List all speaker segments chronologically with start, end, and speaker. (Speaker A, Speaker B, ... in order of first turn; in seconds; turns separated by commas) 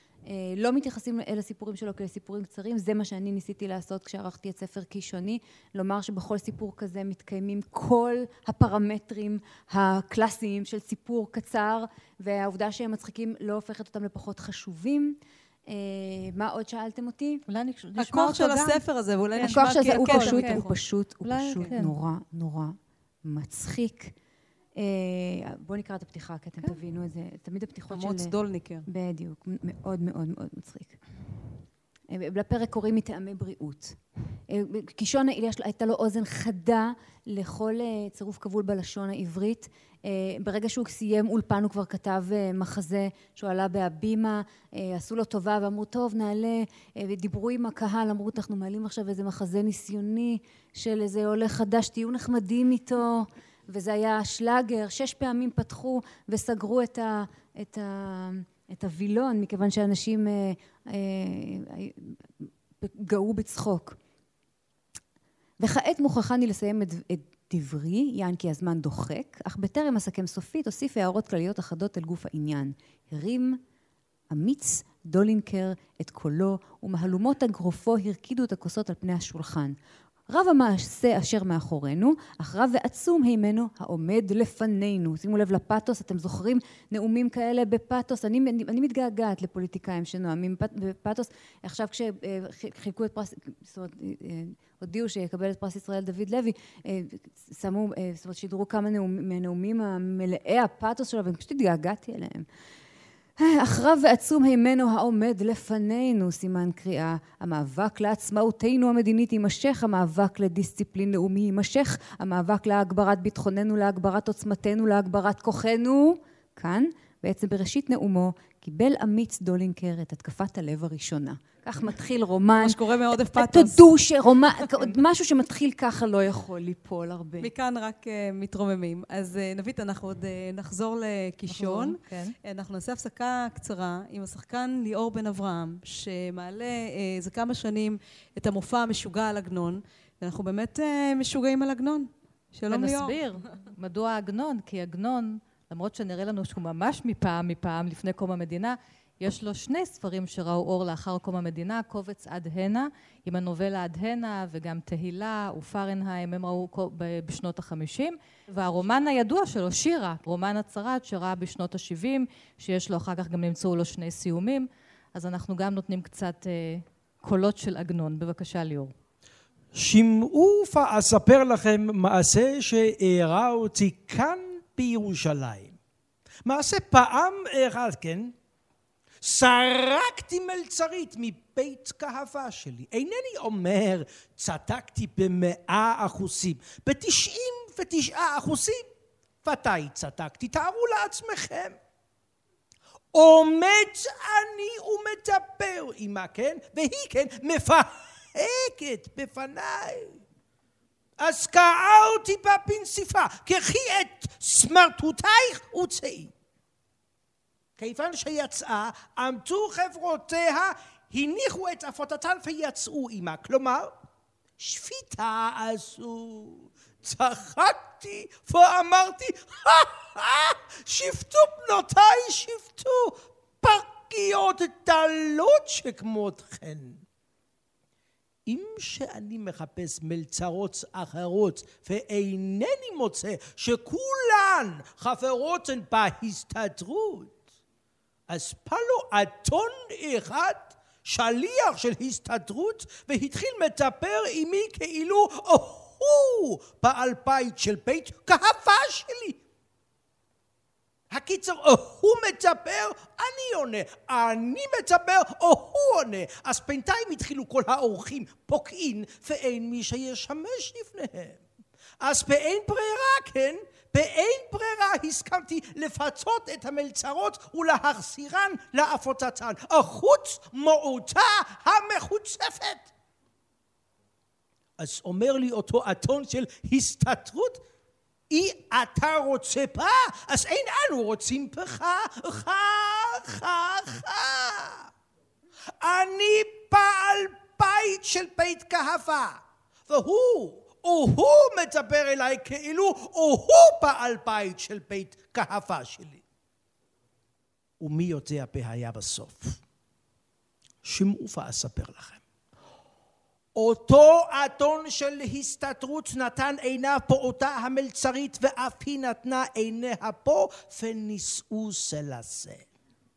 Speaker A: 0.3-17.4, Speaker B: 17.5-18.8, Speaker C: 18.0-20.8, Speaker B: 19.4-20.7, Speaker A: 19.5-24.1, Speaker B: 21.2-21.9, Speaker A: 24.8-28.3, Speaker C: 27.9-28.9, Speaker A: 28.9-31.0, Speaker A: 32.1-34.0, Speaker A: 34.5-64.0, Speaker A: 65.6-73.6, Speaker A: 74.3-79.8, Speaker A: 80.3-102.5, Speaker A: 103.4-127.5, Speaker C: 122.6-123.9, Speaker C: 127.4-143.2, Speaker B: 131.5-132.3, Speaker B: 142.7-168.9, Speaker D: 169.7-175.8, Speaker D: 176.4-178.3, Speaker D: 179.2-188.9, Speaker D: 189.4-191.8, Speaker D: 193.1-200.2, Speaker D: 201.2-206.3, Speaker D: 207.8-214.0, Speaker D: 214.6-227.0, Speaker D: 228.5-237.4, Speaker D: 238.3-249.4, Speaker D: 251.1-261.4, Speaker D: 262.0-272.9, Speaker D: 274.8-277.6, Speaker D: 278.3-284.9, Speaker D: 285.8-296.2, Speaker D: 297.8-299.6, Speaker D: 300.8-302.2, Speaker D: 303.6-312.7